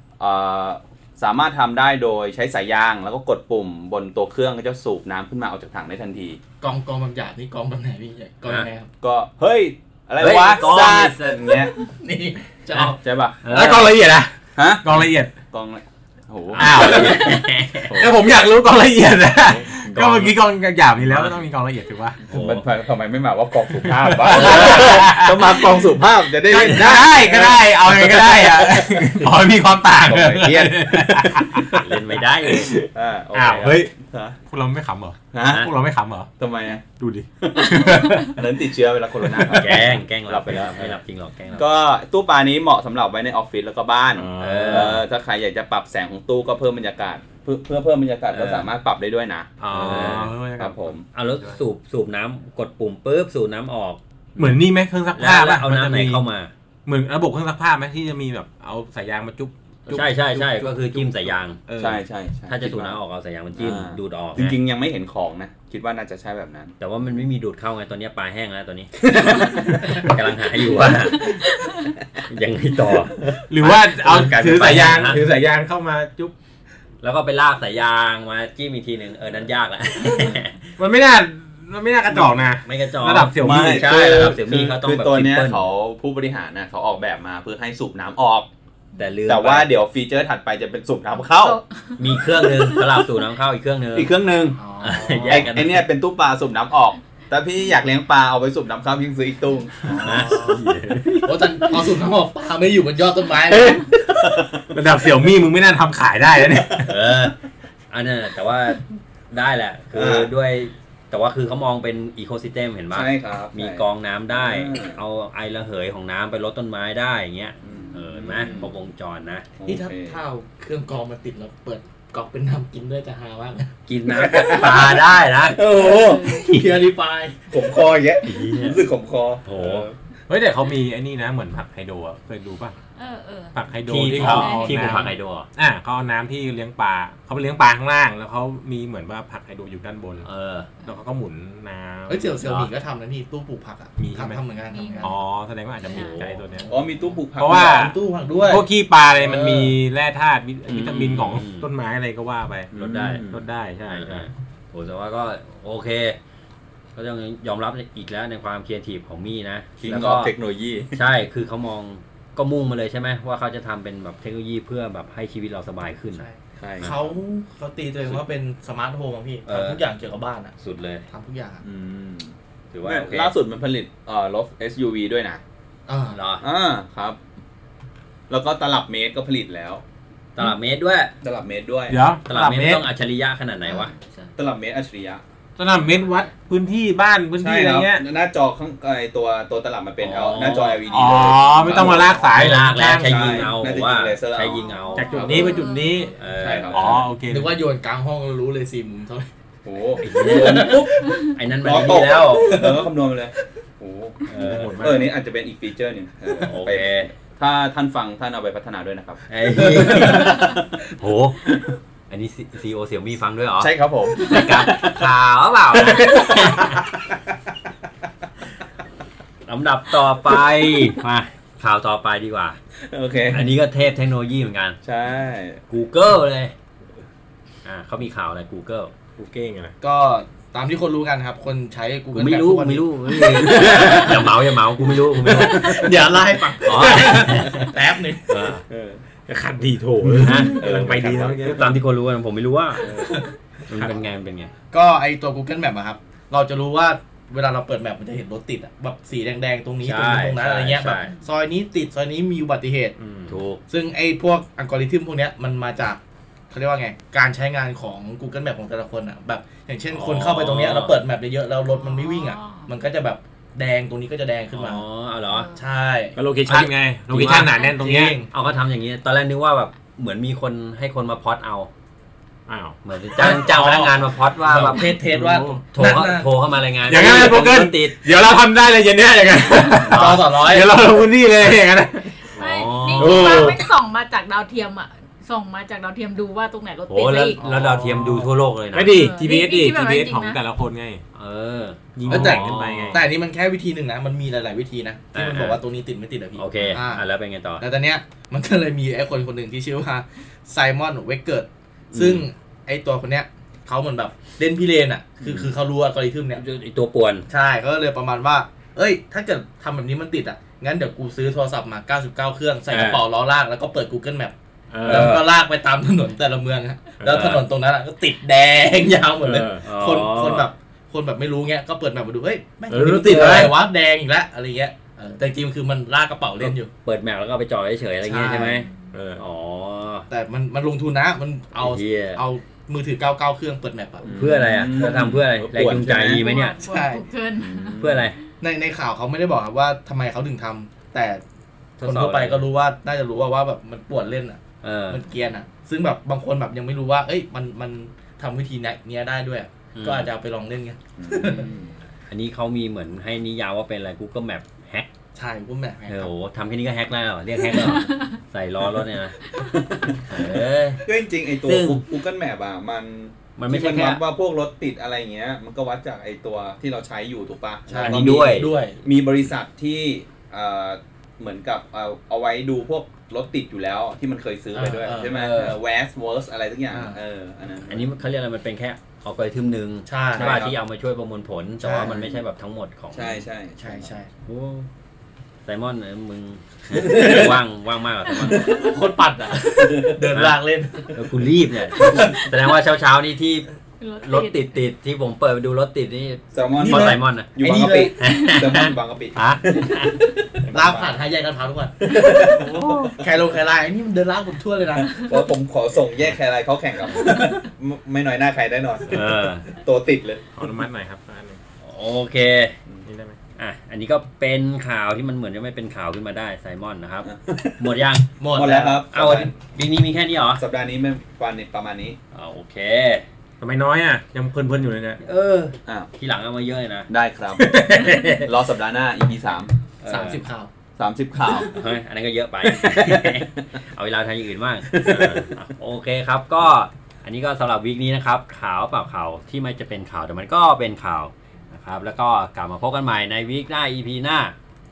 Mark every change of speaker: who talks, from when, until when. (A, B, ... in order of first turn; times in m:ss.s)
0:00.2-0:06.4 A
0:06.6-0:08.9 B
0:09.0-0:11.7 A
0:10.2-0:11.6 C
0:11.8-0:13.0 B
0:13.0-0:13.9 A
0:13.4-0:13.9 C
0:13.5-0:15.3 D
0:14.6-0:18.2 A
0:16.5-0:18.0 C
0:16.6-0:22.2 D
0:19.4-0:20.3 A
0:21.1-0:21.4 C
0:22.2-0:29.3 A
0:22.3-0:22.7 C
0:23.8-0:25.8 D
0:24.3-0:25.1 C
0:26.5-0:31.8 D
0:26.5-0:27.0 C
0:30.0-0:31.8 A
0:31.7-0:32.7 C
0:32.4-0:33.9 D
0:32.9-0:34.4 A
0:34.5-0:36.3 D
0:35.3-0:35.7 A
0:36.4-0:36.8 A
0:37.0-0:38.4 D
0:37.4-0:41.0 A
0:39.2-0:39.7 D
0:39.5-0:41.6 C
0:41.6-0:51.0 A
0:44.1-0:45.0 D
0:44.4-0:45.0 C
0:48.3-0:48.7 C
0:49.6-0:51.6 D
0:49.7-0:50.3 C
0:51.1-0:54.0 C
0:54.4-0:56.2 D
0:55.1-0:56.5 C
0:56.8-1:02.0 D
0:59.9-1:01.6 C
1:01.8-1:03.0 A
1:02.5-1:04.6 C
1:03.5-1:06.7 A
1:06.8-1:11.4 C
1:09.8-1:10.0 D
1:12.2-1:15.2 C
1:13.5-1:16.3 D
1:14.5-1:14.8 A
1:17.0-1:20.6 C
1:20.8-1:23.9 D
1:22.1-1:25.7 C
1:23.4-1:28.5 A
1:29.0-1:29.7 C
1:29.3-1:31.6 A
1:31.4-1:33.0 E
1:32.0-1:34.1 C
1:33.9-1:34.6 A
1:34.6-1:35.5 B
1:34.8-1:35.8 C
1:35.2-1:40.4 A
1:39.8-1:40.6 B
1:40.0-1:41.3 C
1:40.1-1:41.3 D
1:41.2-1:43.9 B
1:43.5-1:43.9 D
1:44.2-1:44.7 A
1:44.7-1:46.9 D
1:46.8-1:47.4 C
1:47.9-1:59.5 C
1:49.9-1:50.3 A
1:52.9-1:55.0 A
1:57.6-1:58.7 A
1:59.6-2:00.2 A
1:59.6-2:03.7 B
2:03.9-2:05.6 C
2:04.1-2:06.3 A
2:05.7-2:07.5 B
2:05.7-2:06.4 E
2:06.3-2:06.7 C
2:07.5-2:09.9 A
2:08.2-2:08.8 C
2:09.4-2:09.9 C
2:10.3-2:12.8 D
2:13.0-2:13.5 E
2:13.5-2:20.2 D
2:13.8-2:15.5 C
2:14.1-2:15.1 E
2:20.2-2:20.7 C
2:20.8-2:22.6 D
2:22.1-2:25.1 B
2:24.0-2:24.4 D
2:24.7-2:25.2 E
2:25.0-2:26.7 D
2:25.8-2:26.7 E
2:25.9-2:26.4 C
2:26.7-2:27.9 A
2:27.4-2:27.9 D
2:27.6-2:28.6 B
2:28.5-2:32.7 D
2:29.2-2:29.8 B
2:30.7-2:31.7 C
2:32.7-2:33.4 A
2:32.7-2:33.2 C
2:33.2-2:34.3 D
2:33.9-2:36.2 C
2:36.9-2:40.3 C
2:39.8-2:41.0 A
2:40.9-2:46.2 C
2:46.1-2:50.6 B
2:46.6-2:47.1 A
2:49.4-2:49.8 C
2:50.6-2:51.0 C
2:51.1-2:51.6 B
2:51.6-2:55.4 A
2:52.7-2:53.3 C
2:55.9-2:56.2 B
2:56.1-2:56.4 C
2:56.4-2:57.2 A
2:58.3-2:59.8 A
3:00.4-3:01.1 C
3:01.2-3:02.0 A
3:01.9-3:02.8 D
3:02.3-3:03.9 C
3:03.8-3:04.3 E
3:04.4-3:05.2 A
3:05.6-3:08.0 D
3:05.8-3:06.3 E
3:07.4-3:15.6 A
3:10.0-3:10.8 C
3:10.8-3:11.6 E
3:10.9-3:13.5 D
3:11.7-3:15.1 C
3:14.5-3:16.2 E
3:14.9-3:17.6 D
3:16.2-3:17.0 C
3:16.4-3:17.0 A
3:17.3-3:19.3 B
3:19.6-3:21.0 A
3:20.0-3:22.6 C
3:20.1-3:21.2 B
3:21.6-3:30.8 A
3:22.4-3:22.9 B
3:24.3-3:24.8 C
3:24.3-3:25.1 D
3:26.4-3:27.1 C
3:29.3-3:31.5 C
3:29.9-3:30.3 B
3:31.4-3:31.7 A
3:32.1-3:36.8 C
3:33.6-3:35.1 A
3:35.9-3:37.2 A
3:39.5-3:42.6 C
3:42.9-3:43.5 A
3:43.3-3:44.8 C
3:44.8-3:45.6 A
3:45.7-3:46.5 C
3:47.6-3:48.9 C
3:49.2-3:49.7 D
3:49.8-3:54.2 B
3:52.1-3:56.1 C
3:53.3-3:54.3 D
3:55.1-3:57.6 D
3:55.3-3:58.5 B
3:56.6-3:57.7 C
3:58.3-3:58.6 C
3:58.7-3:59.0 A
3:59.2-4:01.8 D
4:00.2-4:00.6 C
4:00.5-4:01.6 A
4:01.4-4:02.9 C
4:02.8-4:04.0 D
4:02.9-4:03.3 B
4:03.7-4:04.5 C
4:04.7-4:13.0 B
4:09.8-4:11.1 C
4:13.0-4:13.4 D
4:13.3-4:13.6 C
4:13.7-4:16.0 B
4:16.5-4:24.8 B
4:19.9-4:21.0 C
4:21.7-4:22.7 E
4:24.5-4:25.5 C
4:25.3-4:25.6 E
4:25.5-4:26.2 B
4:26.2-4:28.1 D
4:26.4-4:27.5 C
4:27.6-4:28.3 B
4:28.3-4:31.7 C
4:32.5-4:32.8 D
4:32.8-4:35.0 C
4:33.2-4:36.3 B
4:34.6-4:35.6 D
4:35.7-4:38.0 C
4:36.9-4:42.3 D
4:39.8-4:40.3 C
4:39.9-4:40.8 B
4:42.2-4:47.4 E
4:42.4-4:43.6 C
4:43.0-4:43.6 D
4:46.9-4:49.0 C
4:47.4-4:48.2 B
4:47.7-4:51.0 D
4:48.9-4:50.4 E
4:51.1-4:53.0 C
4:52.0-4:53.0 D
4:52.1-4:57.0 B
4:55.1-4:55.6 C
4:56.4-4:57.6 C
4:57.6-5:06.4 B
5:01.9-5:02.2 C
5:06.3-5:07.3 C
5:07.3-5:26.7 B
5:12.7-5:13.0 D
5:14.7-5:15.2 D
5:14.8-5:15.2 C
5:17.0-5:17.4 D
5:17.1-5:17.4 C
5:19.2-5:19.6 D
5:19.6-5:20.5 C
5:22.7-5:23.6 D
5:26.8-5:30.1 C
5:28.0-5:28.7 B
5:28.9-5:29.2 D
5:30.1-5:34.1 B
5:31.5-5:32.2 C
5:34.0-5:36.2 A
5:34.1-5:36.6 C
5:36.1-5:37.8 E
5:36.6-5:37.0 B
5:37.4-5:38.1 A
5:37.8-5:38.2 C
5:38.4-5:41.2 B
5:41.8-5:42.5 C
5:41.8-5:51.5 B
5:44.6-5:45.0 C
5:49.8-5:50.1 C
5:51.0-5:51.7 A
5:52.1-5:54.9 C
5:55.1-5:56.1 B
5:55.9-6:00.9 C
5:57.7-5:58.0 E
5:59.7-6:00.0 A
6:00.8-6:17.9 A
6:01.4-6:01.8 C
6:03.4-6:04.0 C
6:07.7-6:08.8 B
6:07.8-6:08.5 C
6:14.5-6:15.4 B
6:15.1-6:15.5 C
6:16.7-6:17.0 B
6:17.6-6:23.2 C
6:19.9-6:20.4 B
6:20.1-6:20.6 A
6:21.6-6:22.1 B
6:22.9-6:23.9 A
6:23.6-6:24.1 B
6:24.2-6:24.7 C
6:25.4-6:28.7 C
6:26.7-6:27.4 B
6:28.1-6:30.9 B
6:29.6-6:30.0 A
6:30.1-6:30.4 C
6:30.9-6:33.5 C
6:31.9-6:32.2 B
6:33.8-6:34.5 E
6:34.0-6:37.4 C
6:36.3-6:39.8 A
6:36.6-6:37.9 B
6:38.0-6:40.0 C
6:40.4-6:40.9 D
6:40.5-6:45.2 B
6:41.8-6:43.0 A
6:44.9-6:50.2 A
6:46.9-6:47.4 B
6:48.9-6:49.5 C
6:50.4-6:51.4 D
6:51.6-6:52.6 C
6:52.8-6:53.2 D
6:53.4-6:58.1 C
6:57.0-6:57.6 A
6:58.2-6:58.8 B
6:58.3-6:59.3 A
6:58.9-7:00.4 C
7:00.4-7:02.0 A
7:02.1-7:03.0 C
7:03.4-7:05.0 D
7:05.0-7:06.9 C
7:06.9-7:07.5 A
7:07.4-7:08.3 D
7:08.2-7:09.5 A
7:09.8-7:10.2 C
7:09.8-7:10.5 B
7:10.8-7:11.6 A
7:11.2-7:24.3 C
7:12.6-7:13.4 A
7:14.7-7:15.1 A